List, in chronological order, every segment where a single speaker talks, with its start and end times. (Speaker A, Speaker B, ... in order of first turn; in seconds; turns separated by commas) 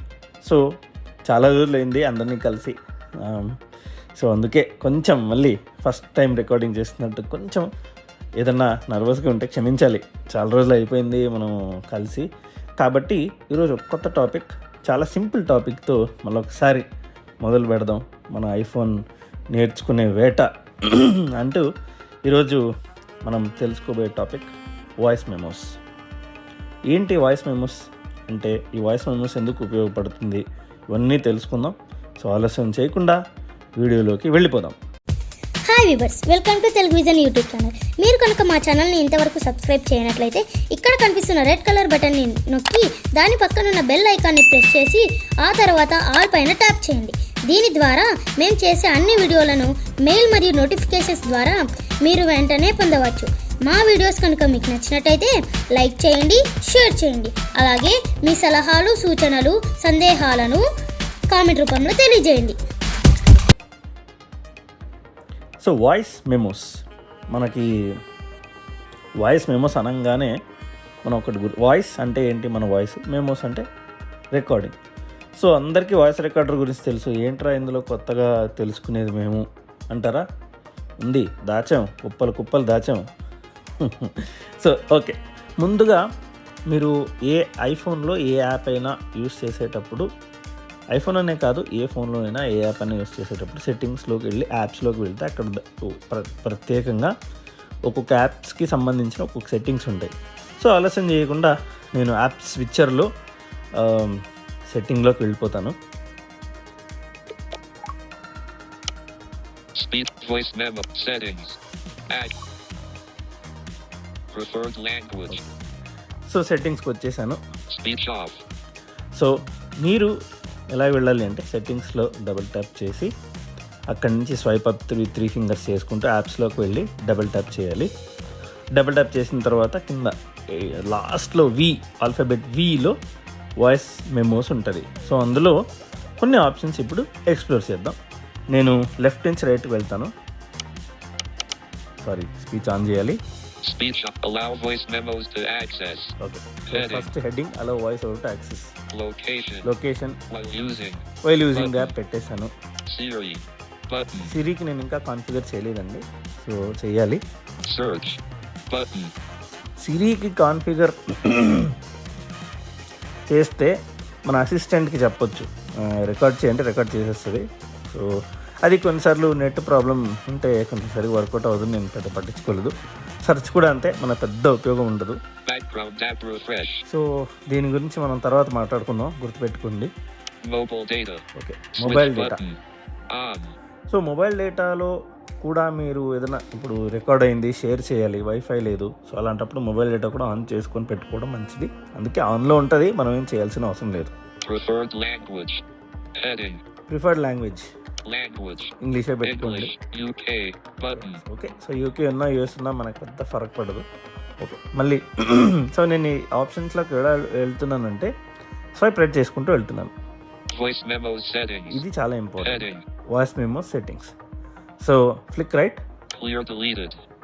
Speaker A: 1.3-3.5, Speaker A: 4.2-7.7, Speaker A: 8.4-12.3, Speaker A: 12.8-16.9, Speaker A: 17.4-19.0, Speaker A: 19.5-21.6, Speaker A: 22.2-22.6, Speaker A: 23.2-25.7, Speaker A: 26.9-27.8, Speaker A: 28.3-33.2, Speaker A: 33.8-34.8, Speaker B: 35.7-60.6, Speaker B: 61.3-62.6, Speaker A: 65.6-66.7, Speaker A: 67.3-67.7, Speaker A: 69.2-70.3, Speaker A: 71.0-73.6, Speaker A: 74.3-74.7, Speaker A: 75.4-80.2, Speaker A: 81.0-83.0, Speaker A: 83.8-86.0, Speaker A: 86.7-90.1, Speaker A: 90.9-97.1, Speaker A: 97.9-103.1, Speaker A: 103.8-105.7, Speaker C: 109.7-111.6, Speaker C: 112.1-112.3, Speaker C: 114.3-115.4, Speaker A: 116.3-117.4, Speaker C: 117.7-118.4, Speaker A: 119.1-120.1, Speaker A: 120.7-123.1, Speaker A: 123.9-127.9, Speaker A: 128.7-132.9, Speaker A: 133.6-135.6, Speaker A: 136.2-137.9, Speaker A: 138.5-140.1, Speaker A: 142.0-143.2, Speaker C: 143.6-146.1, Speaker A: 146.2-148.7, Speaker C: 146.6-147.1, Speaker C: 148.9-149.7, Speaker A: 149.6-150.2, Speaker C: 150.3-151.9, Speaker A: 151.2-152.5, Speaker C: 152.9-154.3, Speaker A: 154.2-157.2, Speaker C: 157.6-159.1, Speaker A: 159.8-161.8, Speaker A: 163.3-163.7, Speaker A: 164.3-168.1, Speaker A: 168.6-172.7, Speaker A: 173.2-175.2, Speaker C: 175.5-176.8, Speaker A: 176.9-179.9, Speaker C: 180.5-181.2, Speaker A: 181.3-182.4, Speaker C: 181.8-182.6, Speaker C: 183.1-183.5, Speaker A: 183.9-194.1, Speaker C: 194.4-195.6, Speaker C: 196.2-196.6, Speaker A: 196.9-197.7, Speaker C: 198.1-201.2, Speaker A: 198.8-199.7, Speaker A: 200.9-203.8, Speaker A: 204.4-208.1, Speaker A: 208.8-209.9, Speaker C: 210.5-211.8, Speaker A: 211.7-214.1, Speaker C: 212.4-212.8, Speaker A: 214.8-215.8, Speaker C: 216.1-217.0